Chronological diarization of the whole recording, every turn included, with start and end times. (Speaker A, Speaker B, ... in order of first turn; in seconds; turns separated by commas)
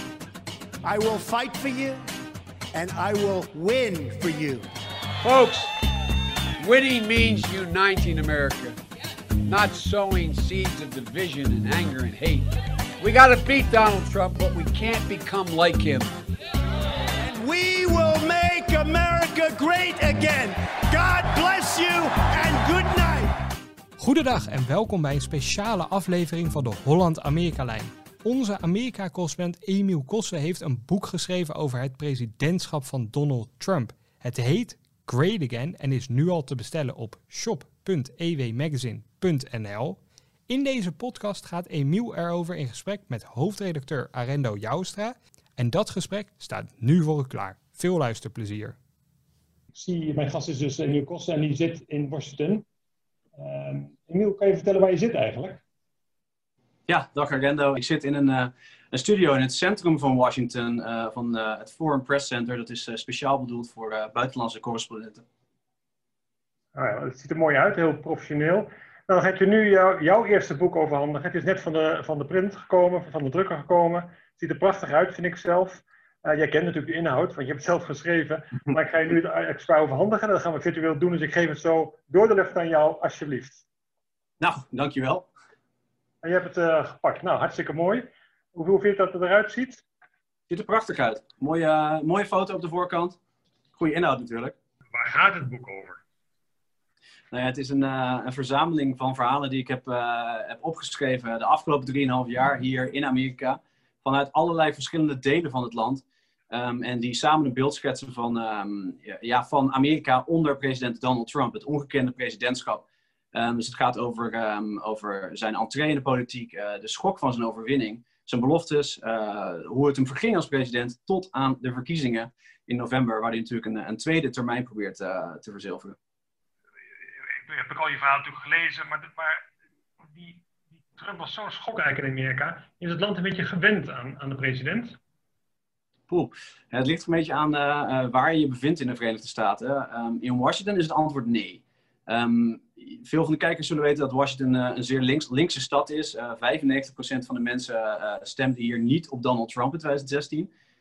Speaker A: 0.8-2.0, Speaker A: 2.7-4.7, Speaker B: 5.2-5.8, Speaker B: 6.6-8.8, Speaker B: 9.5-12.5, Speaker B: 13.0-16.1, Speaker A: 17.2-23.4, Speaker C: 24.0-48.8, Speaker D: 49.7-52.6, Speaker D: 53.4-55.6, Speaker E: 56.9-65.2, Speaker D: 66.8-83.6, Speaker E: 84.4-85.3, Speaker D: 86.2-89.8, Speaker E: 90.5-93.2, Speaker E: 93.7-94.5, Speaker D: 94.9-96.0, Speaker E: 97.3-126.0, Speaker D: 127.5-129.4, Speaker D: 130.2-130.4, Speaker D: 130.9-135.0, Speaker E: 136.1-150.5